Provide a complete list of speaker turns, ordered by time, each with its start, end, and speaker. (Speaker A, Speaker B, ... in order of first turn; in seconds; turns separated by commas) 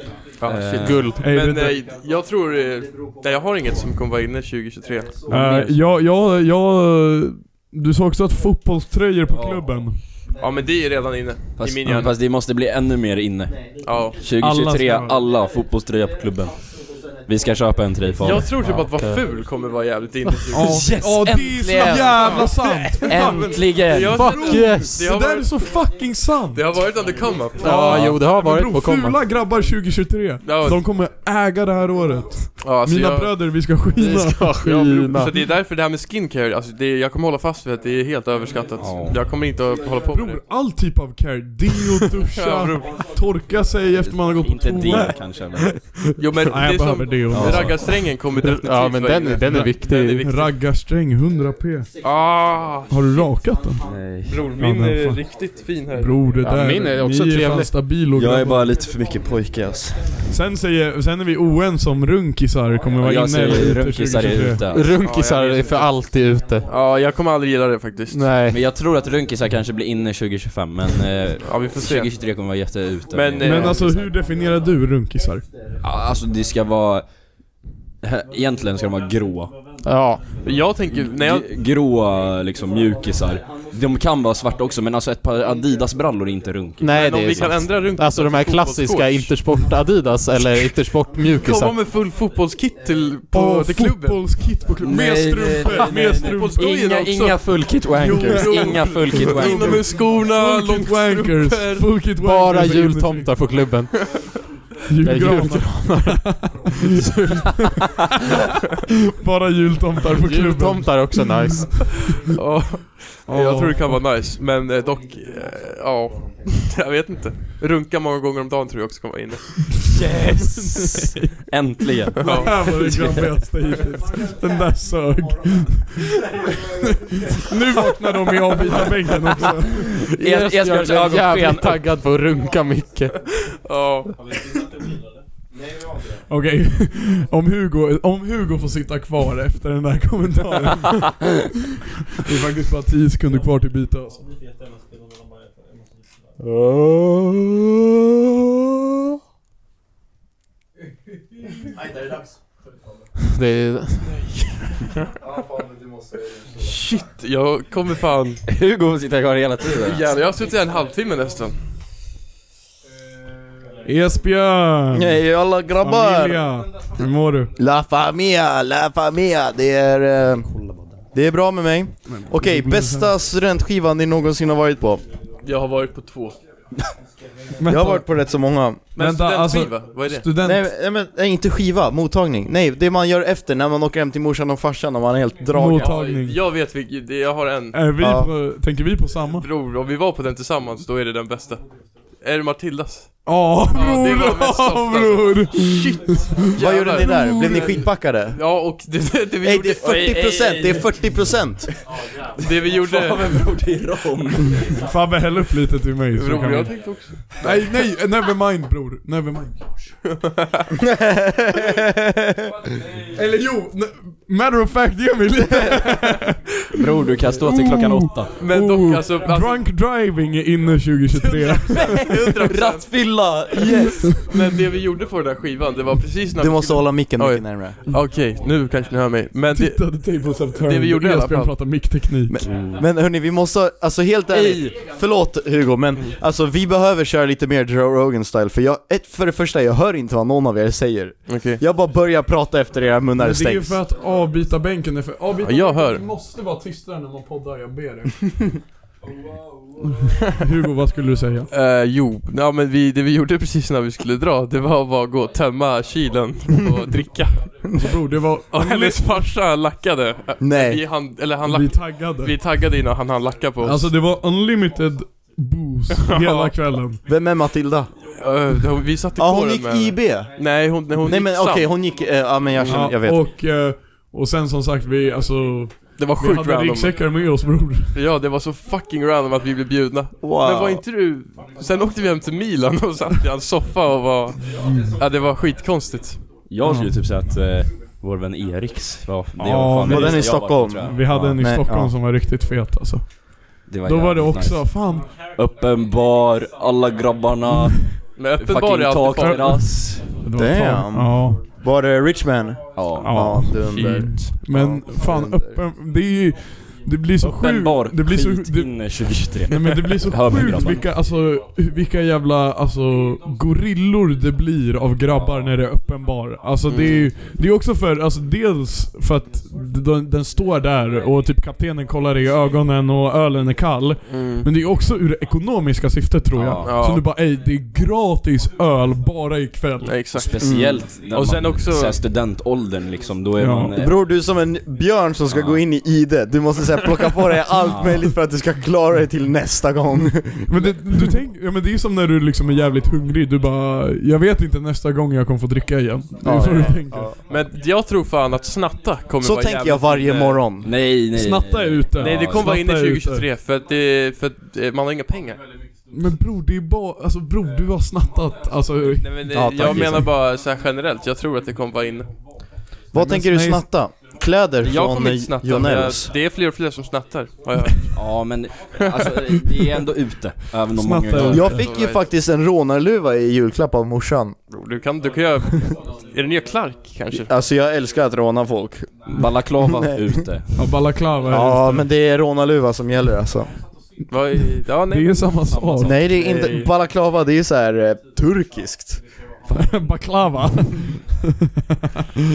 Speaker A: 0.4-5.5, Speaker B: 0.4-1.1, Speaker C: 0.8-1.2, Speaker D: 1.2-1.8, Speaker D: 5.3-10.0, Speaker B: 5.4-5.7, Speaker B: 9.3-9.6, Speaker A: 10.4-12.1, Speaker B: 11.6-18.7, Speaker A: 13.8-14.2, Speaker D: 14.3-15.2, Speaker A: 18.2-20.9, Speaker C: 18.6-19.2, Speaker D: 20.5-26.8, Speaker B: 20.6-24.3, Speaker A: 22.1-22.5, Speaker A: 23.8-25.6, Speaker C: 24.1-25.1, Speaker A: 26.5-28.2, Speaker C: 27.6-29.2, Speaker D: 27.6-35.2, Speaker A: 30.4-30.8, Speaker A: 32.6-33.6, Speaker C: 33.9-35.3, Speaker A: 34.6-40.4, Speaker B: 38.8-39.2, Speaker D: 40.1-48.0, Speaker A: 42.3-43.1, Speaker B: 43.9-45.7, Speaker A: 46.2-50.5, Speaker B: 47.3-47.8, Speaker C: 48.4-50.2, Speaker D: 49.4-51.9, Speaker A: 52.0-53.0, Speaker D: 52.9-53.9, Speaker B: 53.8-54.5, Speaker A: 54.2-56.3, Speaker D: 54.5-55.2, Speaker D: 55.9-58.7, Speaker C: 56.4-57.8, Speaker B: 58.1-60.1, Speaker D: 60.3-64.7, Speaker B: 63.0-65.0, Speaker C: 64.7-66.7, Speaker A: 65.0-65.9, Speaker A: 66.6-68.3, Speaker C: 68.1-68.6, Speaker B: 68.5-73.8, Speaker A: 71.4-72.1, Speaker A: 73.1-73.9, Speaker D: 73.4-75.5, Speaker B: 75.8-77.0, Speaker B: 78.0-79.6, Speaker C: 79.8-80.2, Speaker A: 80.4-81.5, Speaker B: 80.8-87.6, Speaker C: 86.8-91.8, Speaker A: 86.8-89.4, Speaker A: 91.4-94.3, Speaker D: 93.3-96.8, Speaker B: 94.8-99.9, Speaker A: 95.7-102.0, Speaker D: 97.9-103.5, Speaker C: 102.2-104.0, Speaker D: 104.8-107.6, Speaker C: 105.0-107.6, Speaker D: 108.9-112.1, Speaker C: 110.1-111.9, Speaker A: 112.3-119.7, Speaker D: 113.3-114.0, Speaker B: 119.9-123.3, Speaker D: 120.0-121.3, Speaker D: 122.2-130.1, Speaker A: 122.2-122.7, Speaker B: 130.1-131.9, Speaker C: 130.1-133.3, Speaker A: 133.6-134.2, Speaker D: 136.3-141.3, Speaker D: 142.2-144.2, Speaker C: 146.4-147.4, Speaker C: 153.2-154.2, Speaker A: 156.6-158.4, Speaker B: 158.5-160.0, Speaker A: 159.8-161.6, Speaker D: 163.8-165.2, Speaker E: 164.9-166.4, Speaker D: 165.8-167.5, Speaker E: 167.6-170.5, Speaker E: 171.1-175.0, Speaker D: 172.1-173.1, Speaker A: 175.4-176.4, Speaker D: 177.6-178.0, Speaker E: 177.6-178.8, Speaker A: 178.9-180.2, Speaker D: 179.0-180.7, Speaker E: 180.4-185.9, Speaker D: 185.5-186.4, Speaker A: 185.6-187.8, Speaker D: 187.7-189.5, Speaker E: 188.0-188.3, Speaker A: 189.3-191.6, Speaker A: 192.2-200.3, Speaker D: 193.2-197.8, Speaker E: 196.6-198.4, Speaker E: 199.4-201.8, Speaker B: 199.8-200.9, Speaker A: 202.4-203.4, Speaker B: 202.4-204.7, Speaker D: 204.7-209.9, Speaker A: 206.2-207.6, Speaker A: 210.0-210.7, Speaker E: 210.8-212.6, Speaker D: 213.1-221.9, Speaker B: 216.7-218.4, Speaker A: 218.3-219.6, Speaker A: 221.1-222.9, Speaker B: 221.7-224.0, Speaker A: 223.5-230.0, Speaker D: 223.6-224.2, Speaker E: 226.4-227.8, Speaker D: 229.5-232.4, Speaker A: 230.5-231.7, Speaker E: 232.3-243.8, Speaker B: 232.4-232.8, Speaker A: 234.3-234.8, Speaker A: 241.3-241.6, Speaker D: 243.2-248.2, Speaker A: 245.4-246.1, Speaker D: 250.0-251.5, Speaker A: 251.5-257.4, Speaker D: 257.7-259.2, Speaker A: 258.5-263.9, Speaker E: 260.4-260.8, Speaker D: 261.4-262.4, Speaker D: 263.6-267.0, Speaker A: 265.9-266.5, Speaker E: 267.1-267.9, Speaker A: 268.1-271.7, Speaker E: 269.2-270.3, Speaker E: 271.0-273.2, Speaker A: 272.6-272.9, Speaker D: 272.6-277.9, Speaker A: 276.0-276.9, Speaker A: 277.9-286.2, Speaker E: 280.2-280.8, Speaker D: 284.5-284.9, Speaker B: 286.5-291.4, Speaker D: 286.6-287.0, Speaker D: 289.4-293.2, Speaker E: 289.8-291.9, Speaker B: 293.6-297.8, Speaker D: 293.8-295.2, Speaker D: 297.6-297.9, Speaker A: 298.1-299.7, Speaker B: 298.3-300.2, Speaker D: 299.2-301.4, Speaker E: 300.3-305.6, Speaker B: 302.7-303.5, Speaker D: 303.0-330.2, Speaker A: 303.6-304.3, Speaker B: 307.2-310.9, Speaker A: 316.7-317.0, Speaker A: 324.1-324.5, Speaker B: 326.3-326.8, Speaker A: 326.6-327.0, Speaker A: 329.8-330.4, Speaker B: 330.2-334.0, Speaker E: 330.4-330.9, Speaker A: 331.0-332.0, Speaker D: 333.4-333.8, Speaker E: 333.7-341.1, Speaker B: 335.3-335.6, Speaker B: 337.6-338.0, Speaker D: 340.4-347.2, Speaker E: 346.2-347.2, Speaker A: 347.2-350.4, Speaker E: 349.2-350.8, Speaker B: 350.6-352.5, Speaker D: 351.0-353.2, Speaker A: 351.9-355.4, Speaker D: 355.9-359.2, Speaker A: 359.0-362.1, Speaker E: 359.3-360.1, Speaker E: 362.9-366.1, Speaker D: 362.9-363.6, Speaker A: 364.6-367.9, Speaker B: 367.9-371.5, Speaker A: 368.7-369.1, Speaker D: 370.7-371.6, Speaker A: 371.2-372.0, Speaker E: 371.2-374.4, Speaker A: 374.5-377.3, Speaker E: 377.1-380.2, Speaker B: 379.1-380.5, Speaker D: 380.5-381.9, Speaker E: 381.3-383.5, Speaker A: 384.1-386.7, Speaker D: 384.9-386.0, Speaker B: 385.5-386.1, Speaker E: 385.8-389.0, Speaker D: 389.5-392.0